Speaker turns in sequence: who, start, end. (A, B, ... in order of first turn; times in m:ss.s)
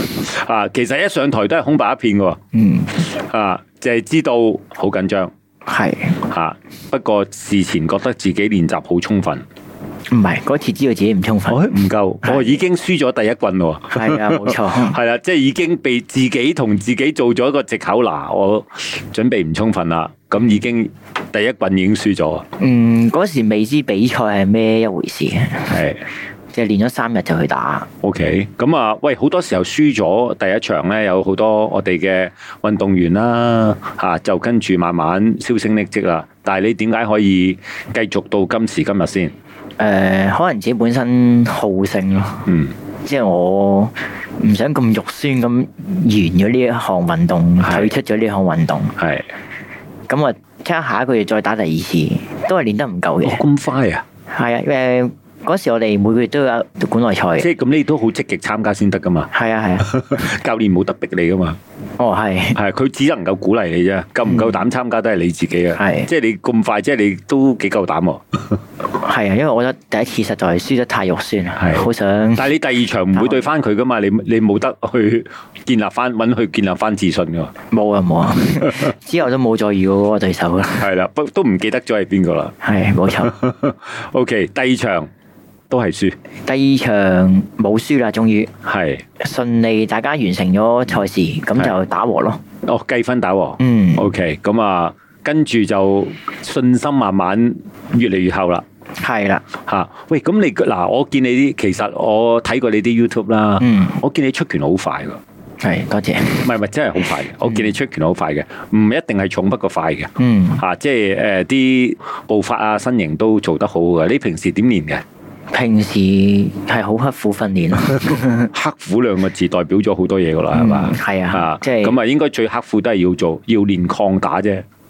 0:00.1-0:02.4 A
0:02.5-0:03.0 B
0:03.0-0:05.3 A
0:05.7-0:06.2 B
0:06.3-0:09.4 A
0:10.1-0:11.6 B
0:11.5-0:22.4 A
0:12.2-0:12.6 B
0:13.9-0:15.0 B
0:22.6-0:25.8 B
0:25.7-0:26.0 A
0:26.5-0:27.9 B
0:28.0-0:39.3 A
0:39.8-0:42.5 B
0:42.5-0:42.7 A
0:43.0-0:49.0 B
0:47.6-0:47.9 A
0:49.0-0:49.3 A
0:50.1-0:53.4 B
0:53.2-0:54.0 A
0:54.3-0:57.5 B
0:57.4-0:59.3 A
0:59.3-0:59.9 B
0:59.8-1:01.6 A
1:02.0-1:02.6 B
1:02.6-1:08.6 A
1:05.8-1:06.1 B
1:09.0-1:12.5 B
1:11.6-1:17.5 A
1:13.1-1:13.5 B
1:17.7-1:20.9 B
1:20.8-1:22.6 A
1:22.6-1:23.4 B
1:23.2-1:25.1 A
1:25.7-1:26.2 A
1:26.5-1:28.5 B
1:28.6-1:29.0 A
1:29.2-1:32.4 B
1:32.6-1:38.6 A
1:33.6-1:34.1 B
1:39.0-1:39.4 B
1:39.6-1:45.2 A
1:43.6-1:44.0 B
1:45.6-1:46.5 B
1:46.4-1:55.0 A
1:50.2-1:50.6 B
1:55.5-1:58.5 B
1:58.5-2:04.6 A
2:00.5-2:02.0 B